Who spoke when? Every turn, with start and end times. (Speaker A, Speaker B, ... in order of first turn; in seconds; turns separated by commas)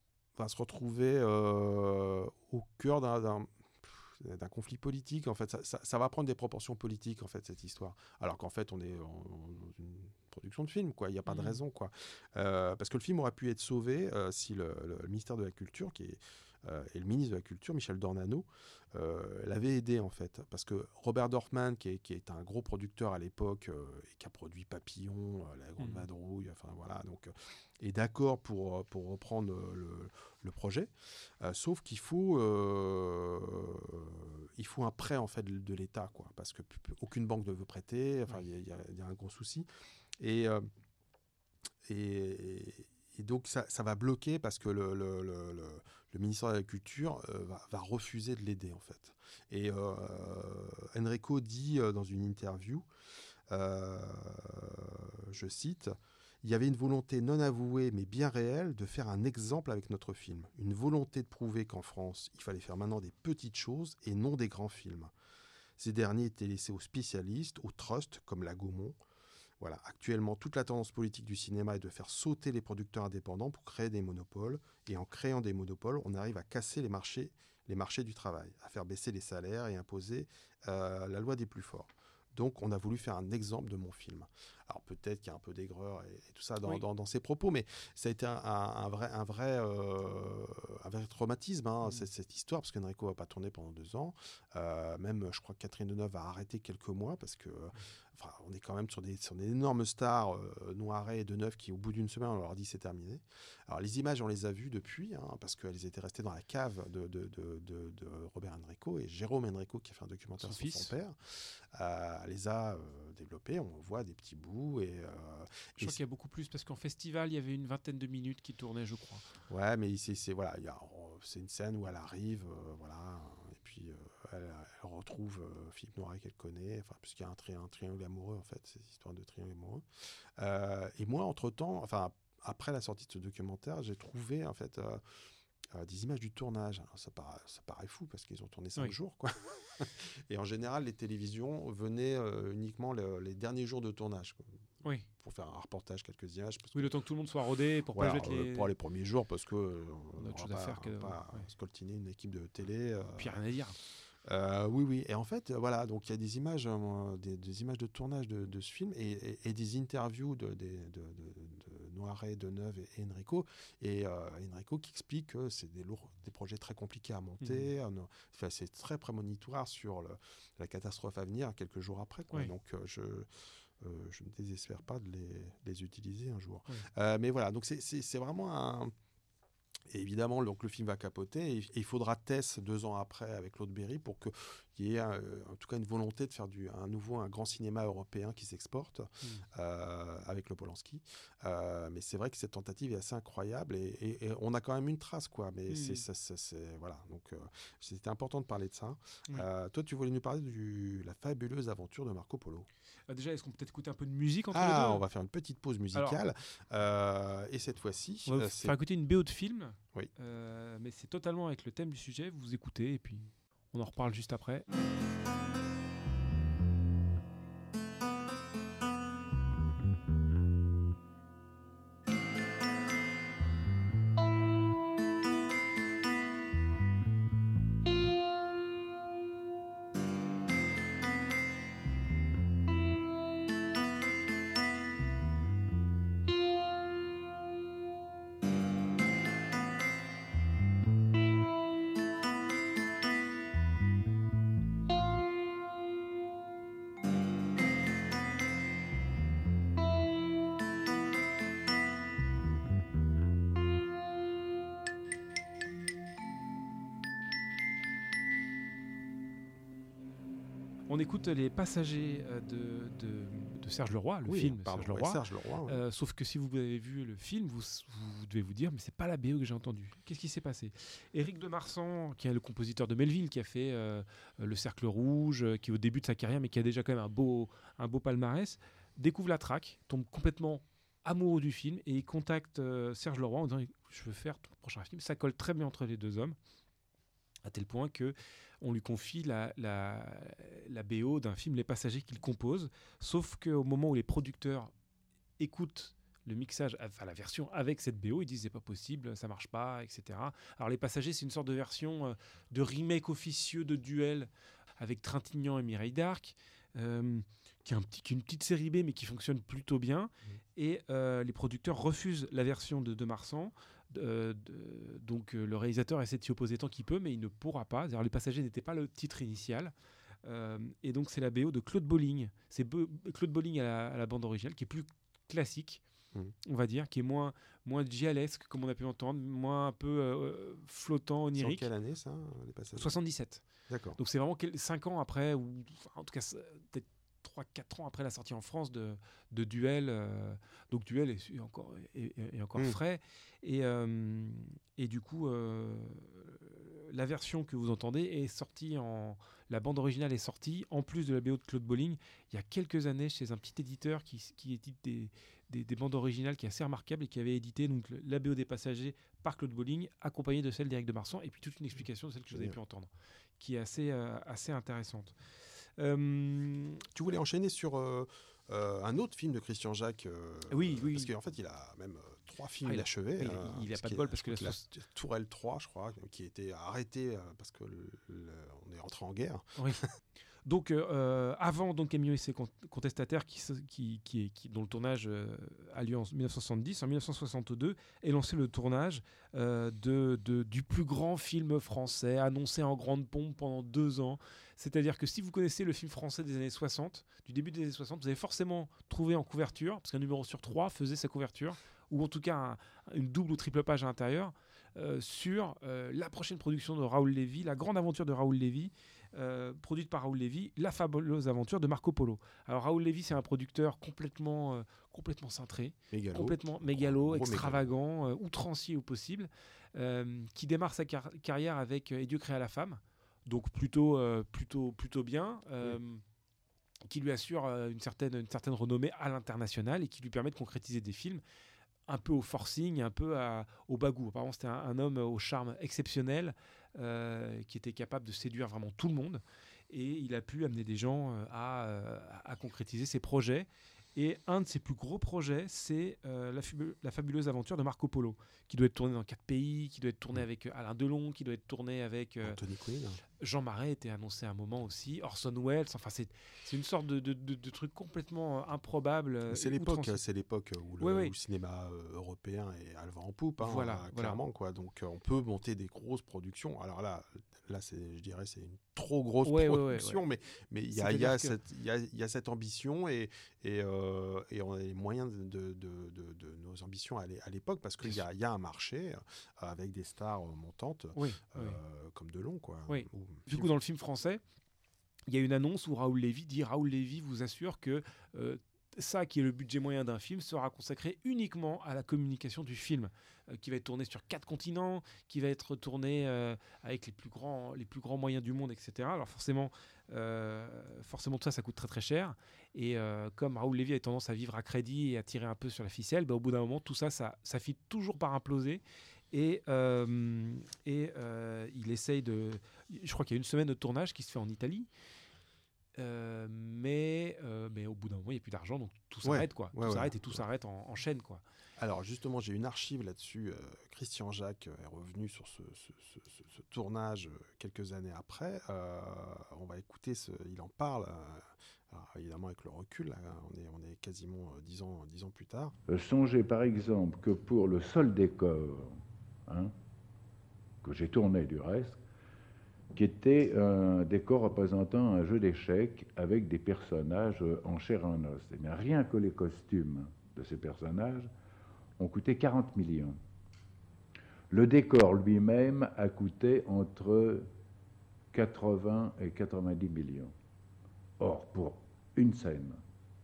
Speaker A: 0.3-39.7, Speaker B: 11.3-11.6, Speaker B: 25.8-26.0, Speaker A: 40.2-40.7, Speaker A: 41.8-52.9, Speaker A: 53.5-65.1, Speaker A: 65.8-69.0, Speaker A: 69.6-116.0, Speaker B: 110.4-110.9, Speaker B: 115.8-119.3, Speaker A: 119.5-129.8, Speaker A: 130.4-135.0, Speaker A: 135.7-144.5, Speaker A: 145.2-146.9, Speaker B: 146.7-148.7, Speaker A: 147.9-153.4, Speaker B: 150.2-151.4, Speaker B: 153.1-153.8, Speaker A: 154.2-173.3, Speaker B: 167.4-167.7, Speaker A: 173.8-178.9, Speaker A: 179.9-202.7, Speaker B: 195.7-196.0, Speaker B: 203.1-205.0, Speaker A: 204.5-208.8, Speaker B: 205.9-206.2, Speaker B: 208.3-214.7, Speaker B: 260.9-286.4, Speaker A: 264.3-265.8, Speaker B: 287.4-294.7, Speaker B: 295.4-319.7, Speaker B: 320.2-325.8, Speaker B: 326.4-331.7, Speaker A: 331.4-332.9, Speaker B: 332.8-333.4, Speaker A: 333.7-334.0, Speaker B: 334.0-365.1, Speaker A: 362.3-362.6, Speaker B: 365.8-366.9, Speaker A: 366.9-380.0, Speaker B: 370.5-371.1, Speaker B: 372.6-374.6, Speaker B: 380.4-426.0, Speaker A: 415.9-417.7, Speaker B: 426.9-431.2, Speaker B: 431.9-452.4, Speaker A: 452.2-453.0, Speaker B: 453.2-460.0, Speaker A: 459.3-483.5, Speaker B: 460.8-461.1, Speaker B: 463.4-464.2, Speaker B: 469.2-470.0, Speaker B: 470.7-471.4, Speaker B: 480.9-481.6, Speaker B: 482.7-484.2, Speaker B: 485.1-514.7, Speaker B: 515.8-521.2, Speaker A: 519.0-520.2, Speaker A: 521.6-535.5, Speaker C: 535.7-539.5, Speaker C: 540.6-541.8, Speaker C: 542.7-551.1, Speaker C: 551.8-553.0, Speaker C: 554.3-557.3, Speaker C: 558.1-560.1, Speaker C: 561.0-562.6